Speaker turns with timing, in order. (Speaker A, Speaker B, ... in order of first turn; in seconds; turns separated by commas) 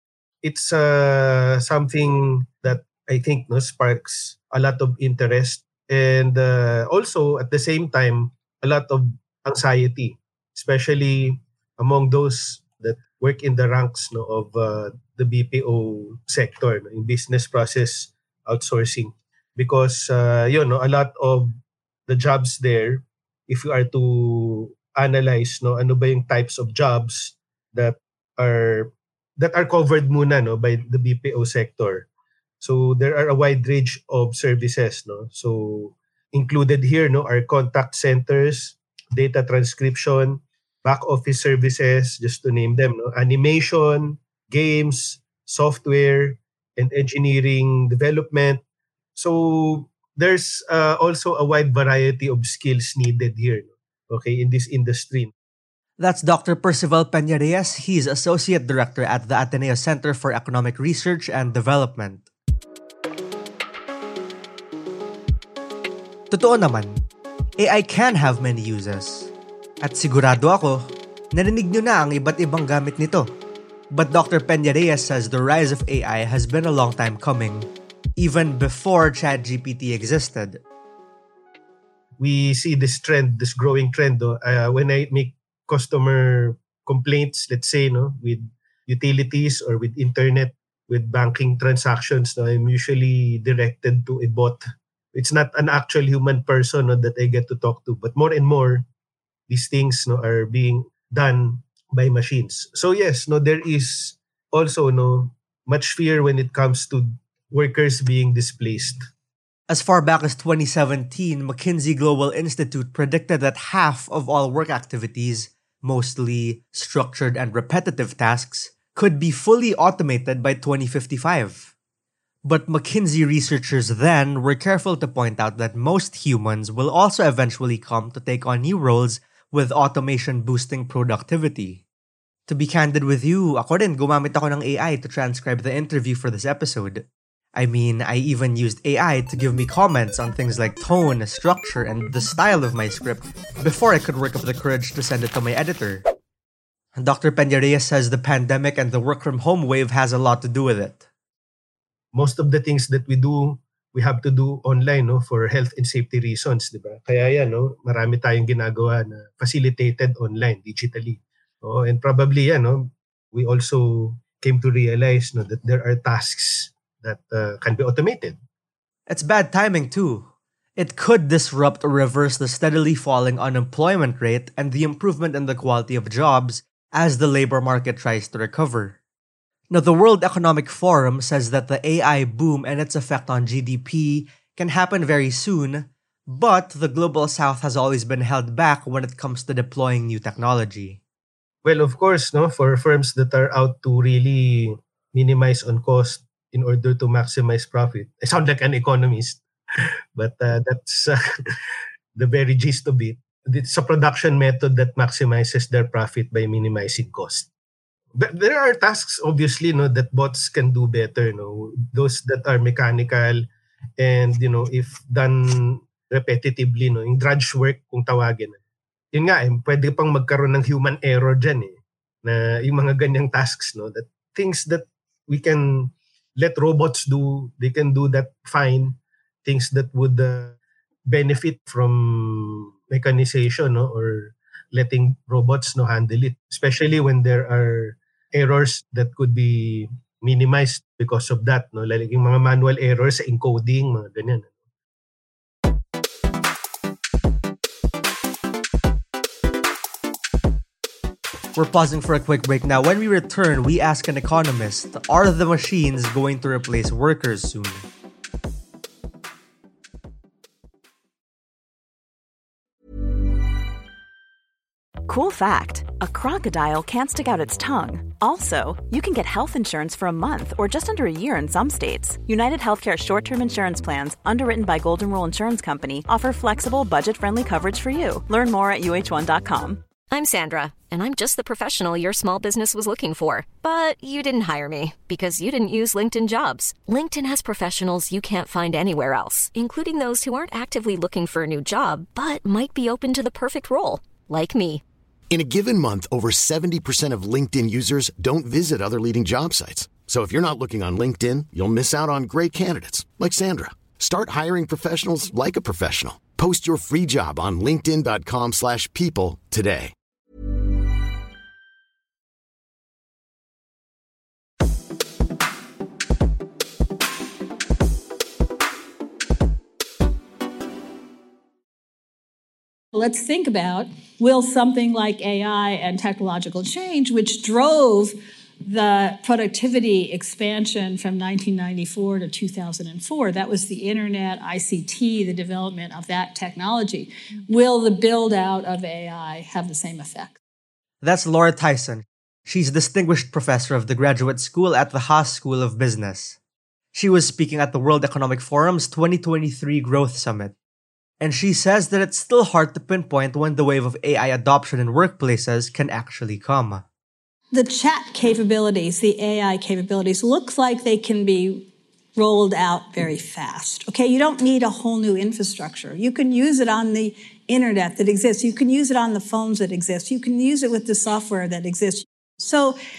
Speaker A: 0.4-21.5, Speaker A: 22.1-32.1, Speaker A: 32.6-48.6, Speaker A: 49.1-55.3, Speaker B: 56.0-62.3, Speaker B: 66.3-67.0, Speaker B: 67.6-73.3, Speaker B: 73.9-80.6, Speaker A: 82.2-94.6, Speaker A: 95.1-98.8, Speaker A: 99.5-109.0, Speaker B: 109.7-121.7, Speaker B: 122.4-131.8, Speaker B: 132.5-146.0, Speaker B: 146.9-151.0, Speaker A: 152.1-168.4, Speaker B: 169.1-179.0, Speaker B: 179.7-191.0, Speaker A: 191.6-199.4, Speaker A: 200.2-201.2, Speaker A: 202.1-207.5, Speaker A: 208.2-213.4, Speaker A: 214.0-218.6, Speaker A: 219.1-244.5, Speaker B: 251.5-257.8, Speaker C: 265.1-279.8, Speaker D: 280.1-294.8, Speaker E: 295.3-309.9, Speaker F: 322.9-340.4, Speaker B: 341.0-346.4, Speaker B: 346.9-350.5, Speaker B: 351.2-356.8, Speaker F: 357.5-372.8